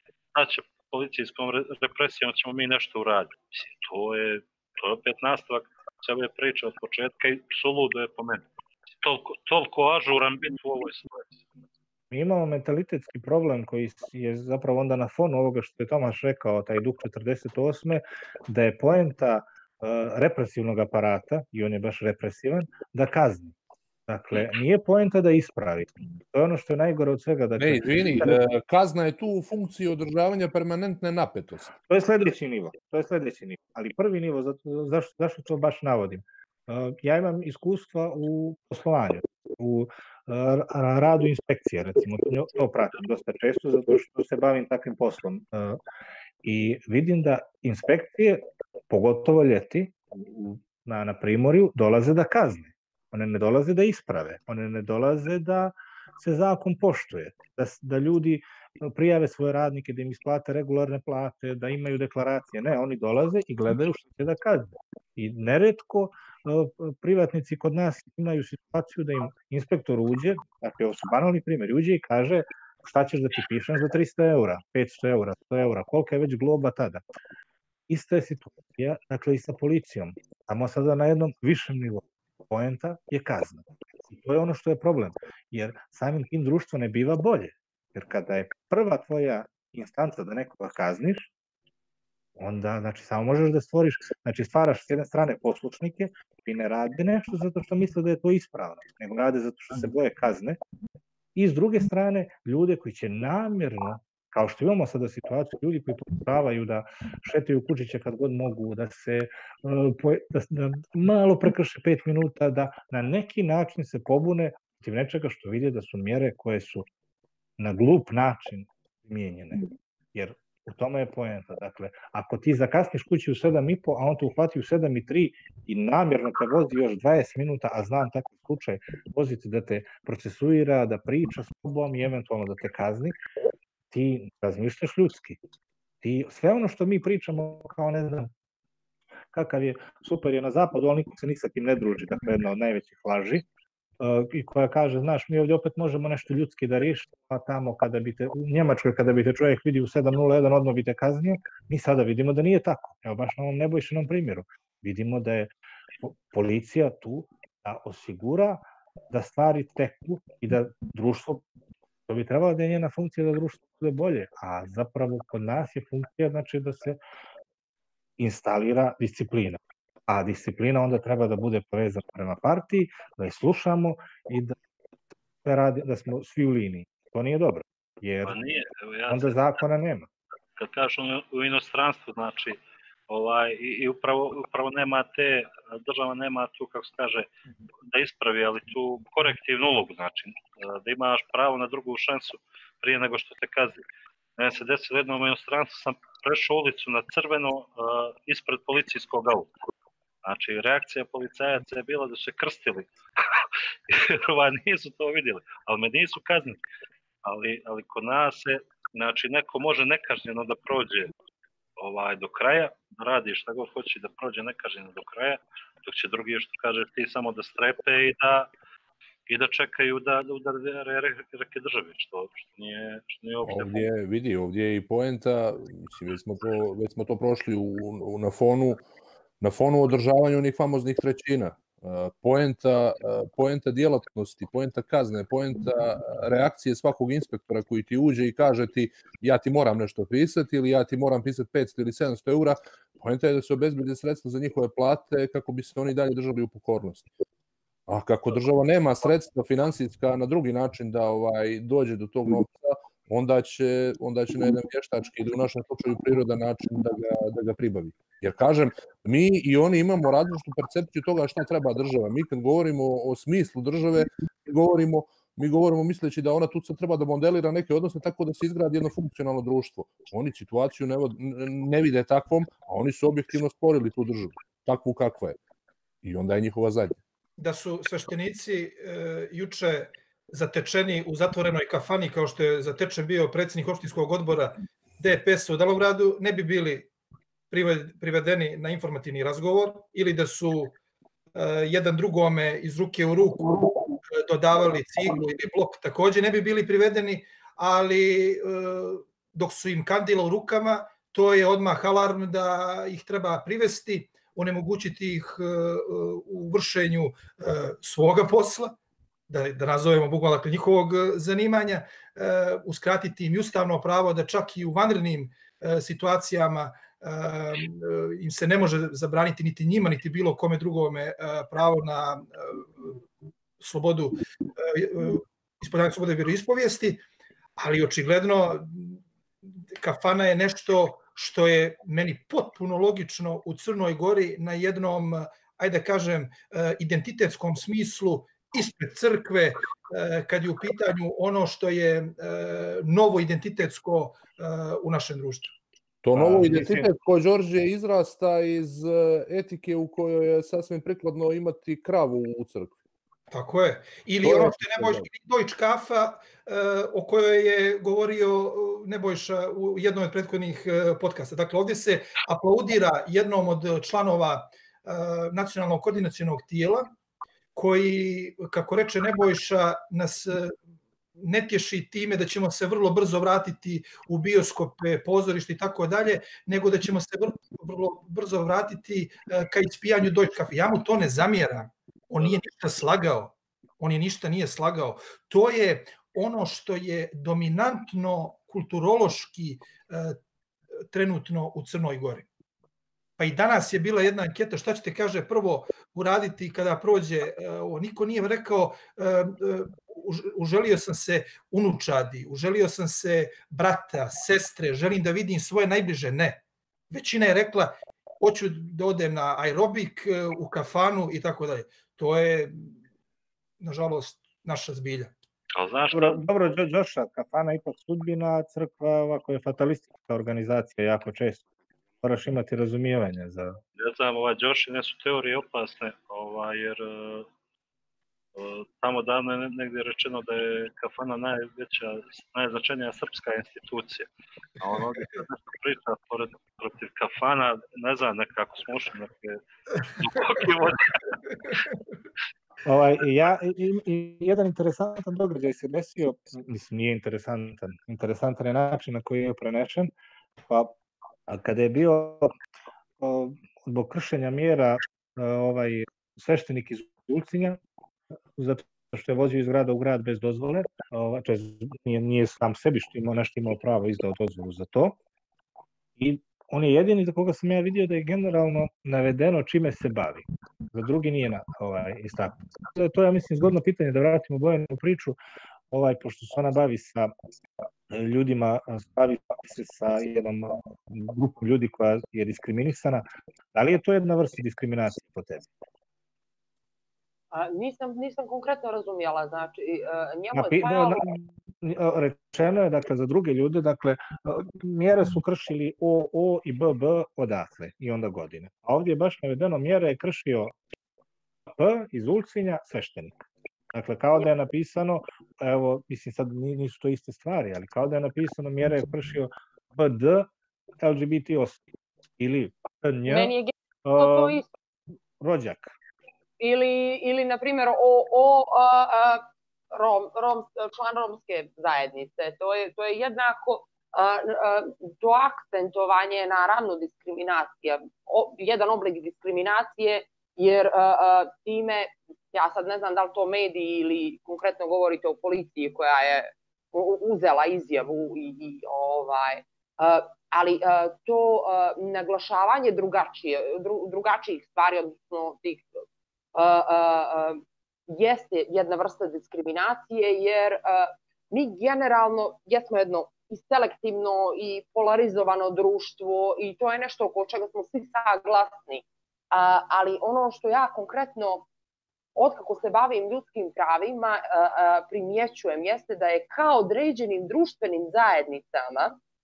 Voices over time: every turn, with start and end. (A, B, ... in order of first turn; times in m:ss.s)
0:00.3-0:08.4 A
0:09.0-0:11.4 A
0:12.1-0:23.5 B
0:24.1-0:28.4 B
0:27.6-0:31.7 C
0:31.9-0:45.8 B
0:46.4-1:17.0 B
1:17.9-1:31.3 B
1:32.4-1:40.6 B
1:41.4-1:56.9 B
1:57.6-2:13.2 B
2:13.9-2:15.4 B
2:16.0-2:18.3 B
2:19.3-2:23.4 B
2:24.0-2:41.4 B
2:42.1-2:47.0 B
2:48.2-2:54.6 B
2:55.4-2:58.4 B
2:58.2-2:59.5 A
2:59.1-3:00.1 B
3:00.6-3:07.3 A
3:07.9-3:13.8 A
3:14.4-3:19.6 A
3:20.2-3:26.6 A
3:27.2-3:31.1 A
3:31.8-3:38.5 A
3:39.3-3:43.9 A
3:43.4-3:48.8 C
3:49.4-4:07.0 C
4:07.9-4:35.4 C
4:36.0-4:37.0 C
4:37.4-4:46.9 D
4:47.5-4:50.8 D
4:51.4-5:08.8 D
5:09.3-5:23.0 D
5:23.6-5:27.0 D
5:27.6-5:29.0 D
5:29.7-5:45.5 D
5:46.0-5:52.7 C
5:46.1-5:46.9 B
5:53.3-6:06.9 D
5:54.2-5:55.1 C
6:07.6-6:10.5 D
6:11.2-6:30.2 D
6:30.9-6:32.3 D
6:33.2-6:52.7 D
6:53.6-6:55.1 D
6:55.6-6:56.2 A
6:55.9-7:01.4 B
7:02.0-7:03.6 B
7:03.8-7:07.3 A
7:08.4-7:14.1 A
7:14.6-7:21.6 A
7:22.7-7:29.9 B
7:30.5-7:30.7 B
7:31.3-7:32.4 B
7:33.0-7:37.6 B
7:38.4-7:45.0 B
7:46.0-7:55.2 B
7:55.7-7:57.1 B
7:57.9-8:05.5 B
8:07.3-8:11.1 E
8:10.3-8:20.6 B
8:21.5-8:30.3 B
8:30.8-8:31.6 B
8:32.2-8:33.3 B
8:33.1-8:34.5 E
8:33.8-8:34.4 B
8:35.2-8:35.7 B
8:36.4-9:05.7 E
9:06.3-9:21.4 E
9:22.2-9:29.0 E